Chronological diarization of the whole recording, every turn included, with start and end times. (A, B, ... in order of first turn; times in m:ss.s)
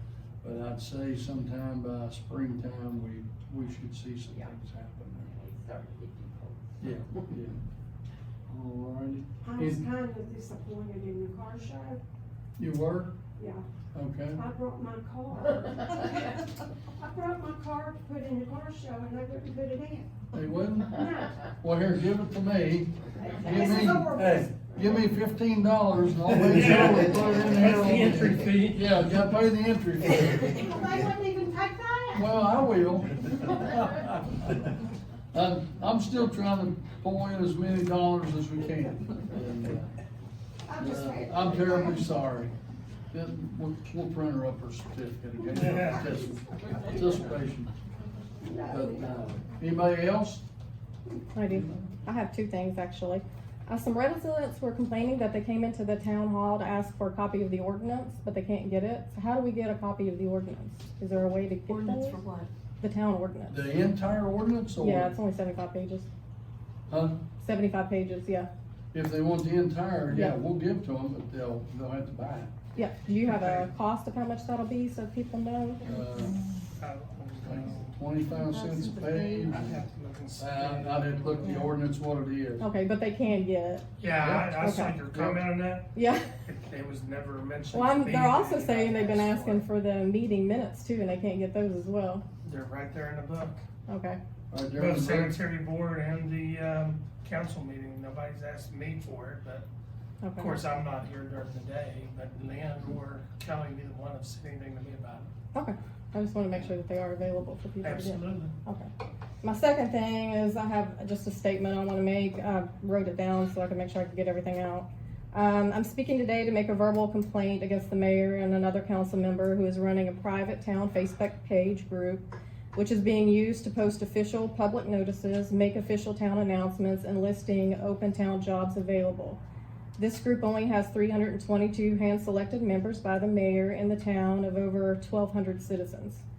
0:00.4-0:05.3 A
0:05.2-0:06.9 B
0:06.8-0:07.6 A
0:08.5-0:09.8 A
0:09.4-0:12.0 C
0:12.6-0:13.2 A
0:13.4-0:13.6 C
0:13.9-0:14.4 A
0:14.3-0:16.3 C
0:17.0-0:20.1 C
0:20.3-0:30.6 A
0:20.9-0:21.3 C
0:23.2-0:24.6 C
0:26.4-0:29.0 D
0:30.3-0:32.3 C
0:32.1-0:34.5 A
0:35.3-0:39.9 A
0:40.7-0:41.9 C
0:40.7-0:42.6 A
0:43.1-0:47.7 A
0:45.5-0:46.1 D
0:48.4-0:48.9 C
0:48.6-0:50.4 A
0:48.8-0:49.2 B
0:51.3-1:02.2 E
1:01.7-1:02.5 C
1:02.8-1:03.7 E
1:03.5-1:05.1 A
1:04.8-1:06.1 E
1:06.9-1:07.2 A
1:07.4-1:08.5 E
1:08.9-1:12.5 A
1:10.1-1:10.4 E
1:12.8-1:15.9 E
1:13.3-1:13.7 D
1:15.8-1:16.4 A
1:16.8-1:18.0 D
1:17.4-1:19.8 A
1:19.5-1:21.6 D
1:20.4-1:22.7 A
1:22.6-1:23.9 E
1:24.0-1:25.9 D
1:24.2-1:25.4 A
1:24.6-1:25.0 E
1:26.0-1:26.3 E
1:26.4-1:29.7 D
1:27.7-1:32.2 E
1:32.4-1:33.6 D
1:33.9-1:34.2 E
1:34.5-1:35.4 A
1:34.8-1:39.7 D
1:40.2-1:40.6 E
1:40.4-1:45.3 D
1:45.5-1:48.9 E
1:47.8-1:48.6 D
1:49.4-2:09.4 E
2:10.0-2:16.2 E